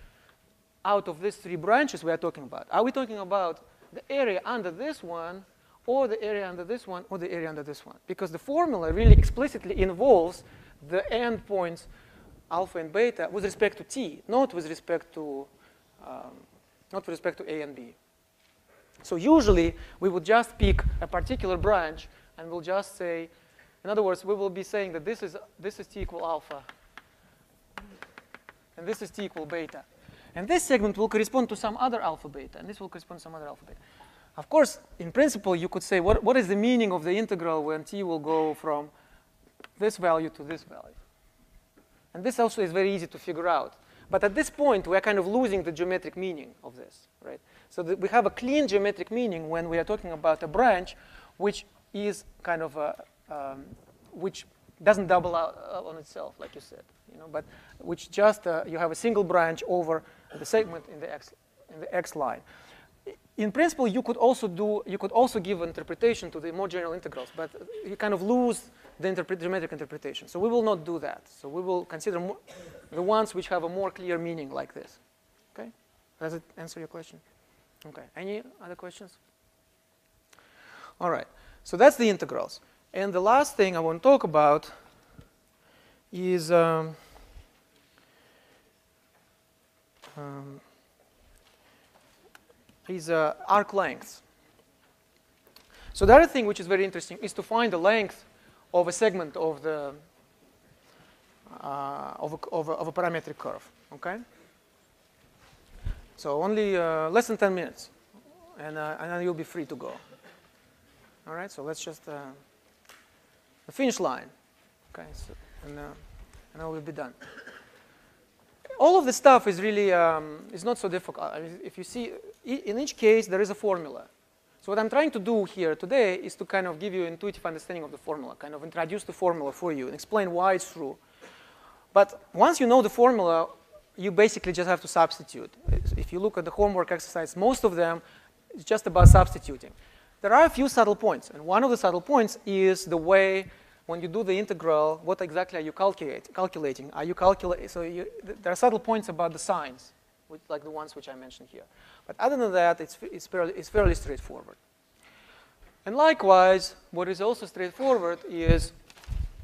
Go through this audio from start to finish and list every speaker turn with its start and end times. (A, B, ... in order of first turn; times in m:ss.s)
0:00.8-0:11.9 A
0:12.5-0:15.5 A
0:16.0-0:18.0 A
0:19.0-0:23.3 A
0:23.8-0:26.7 A
0:28.8-0:33.8 A
0:34.4-0:38.9 A
0:39.8-0:41.0 A
0:42.1-1:02.4 A
1:03.1-1:15.0 A
1:15.5-1:17.2 A
1:17.8-1:19.2 A
1:21.0-1:24.7 A
1:26.1-1:27.0 A
1:30.2-1:30.6 A
1:32.9-1:34.2 A
1:35.9-1:40.0 A
1:41.5-1:44.2 A
1:46.2-1:47.9 A
1:48.6-1:50.0 A
1:51.3-1:52.4 A
1:53.7-1:54.3 A
1:54.9-1:56.0 A
1:56.5-1:57.2 A
1:58.8-2:04.1 A
2:04.6-2:11.0 A
2:11.9-2:18.0 A
2:18.5-2:34.6 A
2:35.8-2:38.7 A